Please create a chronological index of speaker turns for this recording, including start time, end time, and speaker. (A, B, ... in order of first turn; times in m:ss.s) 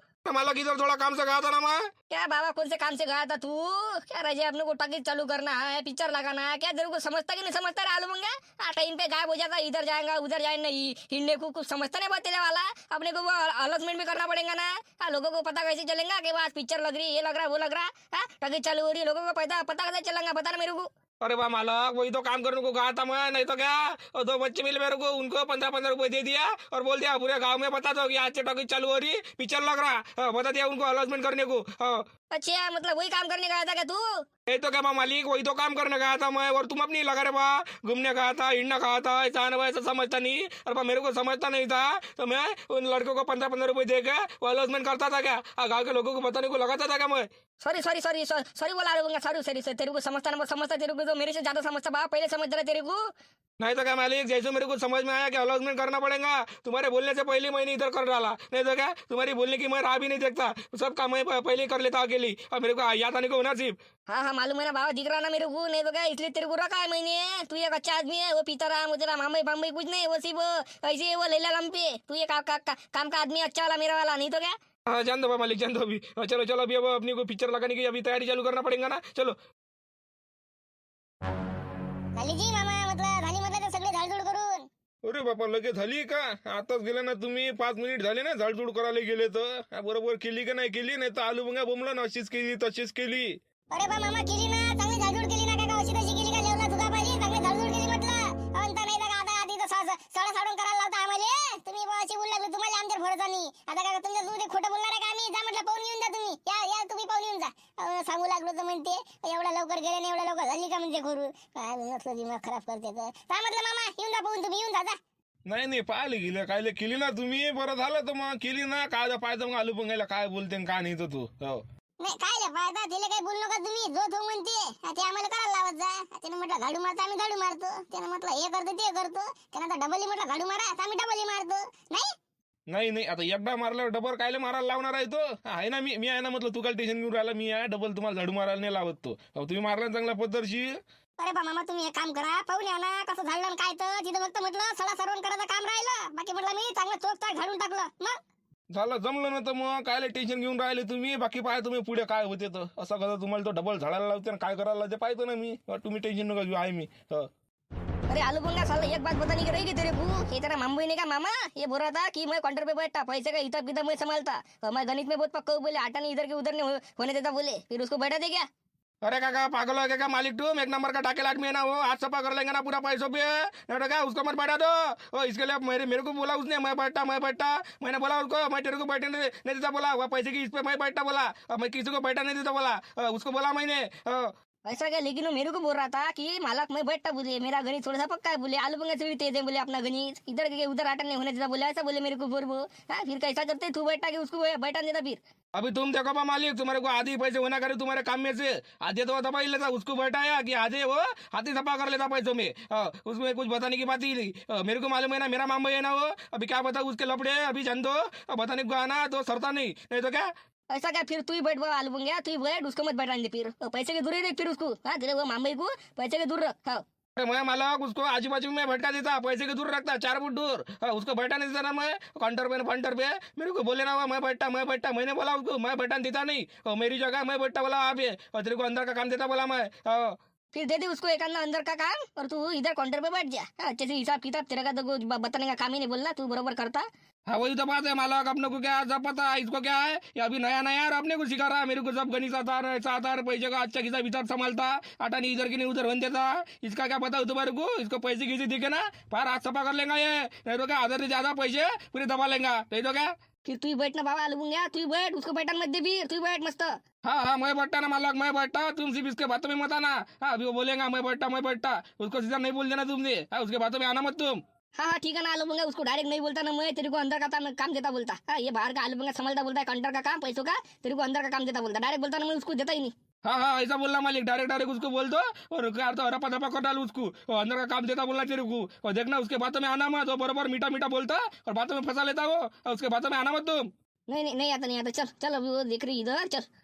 0:00.3-0:01.8 A
0:02.1-0:20.9 B
0:21.2-0:32.0 A
0:32.3-0:34.0 B
0:34.5-0:47.3 A
0:47.6-0:53.0 B
0:53.6-1:03.8 A
1:04.1-1:14.6 B
1:14.9-1:19.4 A
1:22.2-1:24.7 C
1:25.1-1:33.3 A
1:33.7-1:55.0 C
1:55.5-2:01.6 A
2:02.0-2:12.1 C
2:12.7-2:20.8 A
2:21.2-2:28.2 C
2:28.7-2:37.3 A
2:38.1-2:48.5 B
2:49.0-3:04.3 A
3:04.7-3:15.2 B
3:15.6-3:30.3 A
3:30.7-3:36.8 B
3:37.2-3:50.2 A
3:50.5-3:56.9 B
3:57.3-4:13.1 A
4:13.5-4:16.8 B
4:17.0-4:24.4 A
4:24.8-4:32.9 B
4:33.2-4:43.7 A
4:44.1-4:46.5 B